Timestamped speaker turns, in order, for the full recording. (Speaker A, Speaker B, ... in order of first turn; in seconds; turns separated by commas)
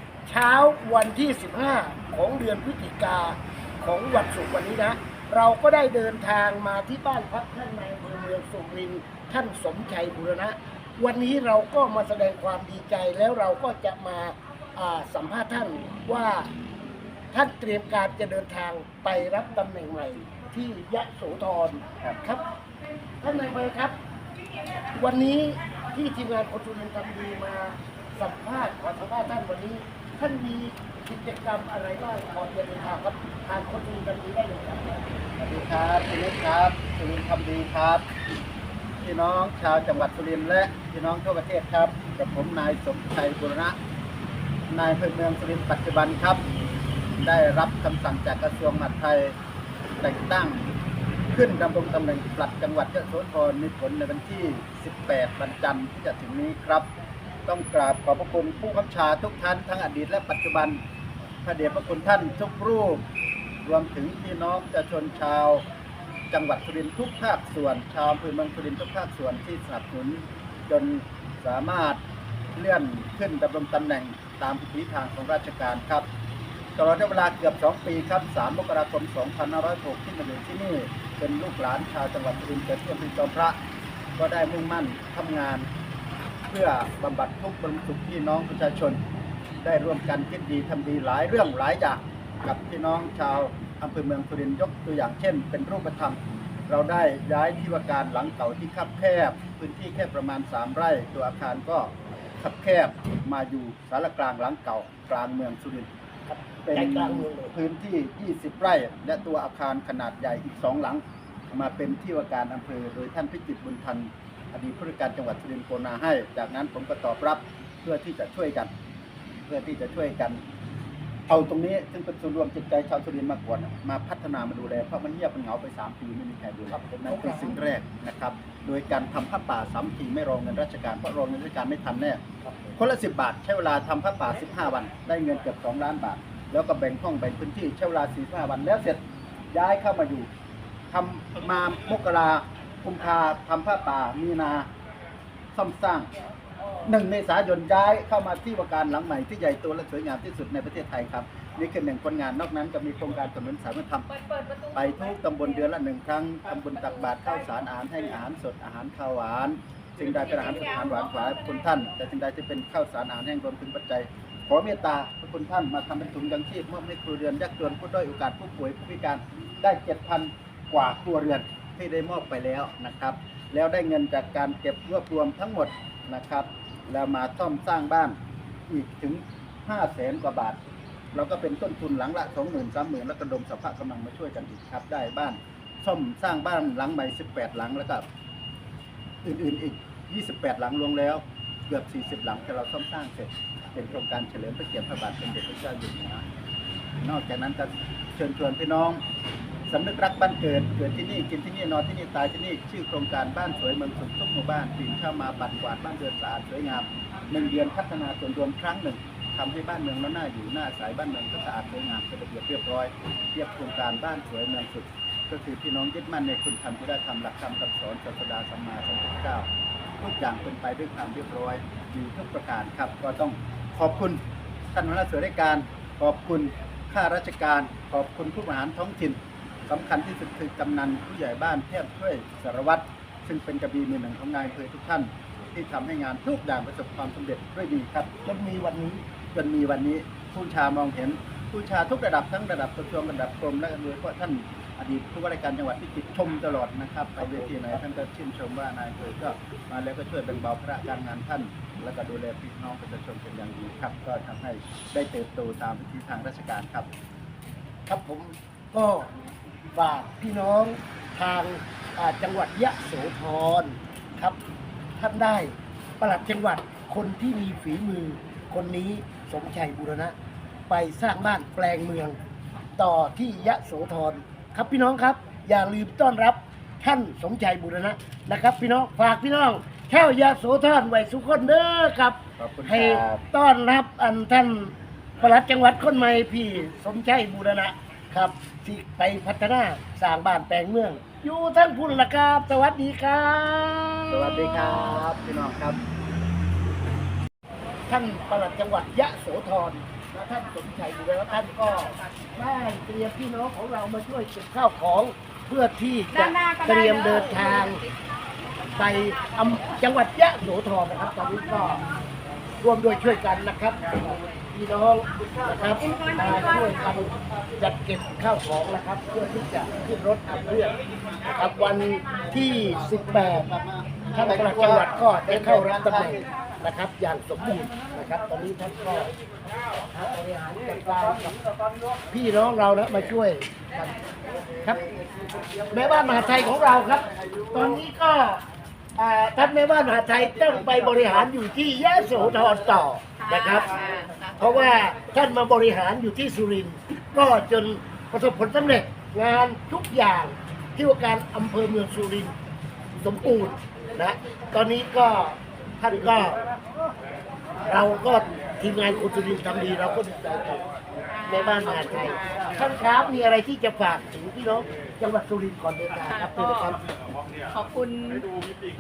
Speaker A: 0.3-16.5, Speaker A: 17.3-22.4, Speaker A: 23.2-24.0, Speaker A: 24.9-35.0, Speaker B: 35.4-38.0, Speaker B: 39.0-43.8, Speaker B: 44.7-46.4, Speaker B: 47.2-49.4, Speaker B: 50.0-50.6, Speaker B: 51.3-56.9, Speaker B: 57.5-60.8, Speaker B: 61.4-63.0, Speaker B: 63.6-65.7, Speaker B: 66.3-72.0, Speaker B: 72.5-76.1, Speaker B: 76.8-83.6, Speaker B: 84.2-85.7, Speaker B: 86.5-89.0, Speaker B: 89.6-105.9, Speaker A: 106.3-107.5, Speaker B: 106.7-118.7, Speaker B: 119.5-120.4, Speaker B: 121.3-132.2, Speaker A: 126.7-127.6, Speaker A: 132.4-132.8, Speaker B: 132.8-139.0, Speaker B: 139.5-140.3, Speaker B: 140.9-144.7, Speaker B: 145.5-146.1, Speaker B: 146.8-154.1, Speaker B: 154.7-178.2, Speaker B: 178.7-180.6, Speaker B: 181.1-188.1, Speaker B: 189.2-196.2, Speaker B: 197.0-199.0, Speaker B: 199.7-219.5, Speaker B: 220.0-224.2, Speaker B: 224.7-238.1, Speaker A: 238.2-239.0, Speaker B: 239.3-256.9, Speaker A: 247.2-247.8, Speaker A: 257.9-259.1, Speaker A: 259.7-264.4, Speaker A: 265.0-270.1, Speaker A: 270.7-272.2, Speaker A: 272.8-295.1, Speaker B: 282.4-283.2, Speaker B: 294.1-295.8, Speaker A: 297.9-307.8, Speaker C: 301.1-302.2, Speaker A: 308.8-311.8, Speaker A: 312.6-323.5, Speaker B: 323.2-326.3, Speaker A: 324.1-329.1, Speaker A: 329.9-331.4, Speaker A: 332.1-334.9, Speaker A: 335.7-338.4, Speaker B: 337.1-337.4, Speaker A: 339.0-343.7, Speaker C: 343.2-344.8, Speaker A: 344.4-352.3, Speaker A: 352.9-356.4, Speaker A: 357.7-360.6, Speaker C: 361.1-362.6, Speaker A: 361.3-366.8, Speaker C: 366.1-366.8, Speaker C: 367.5-368.3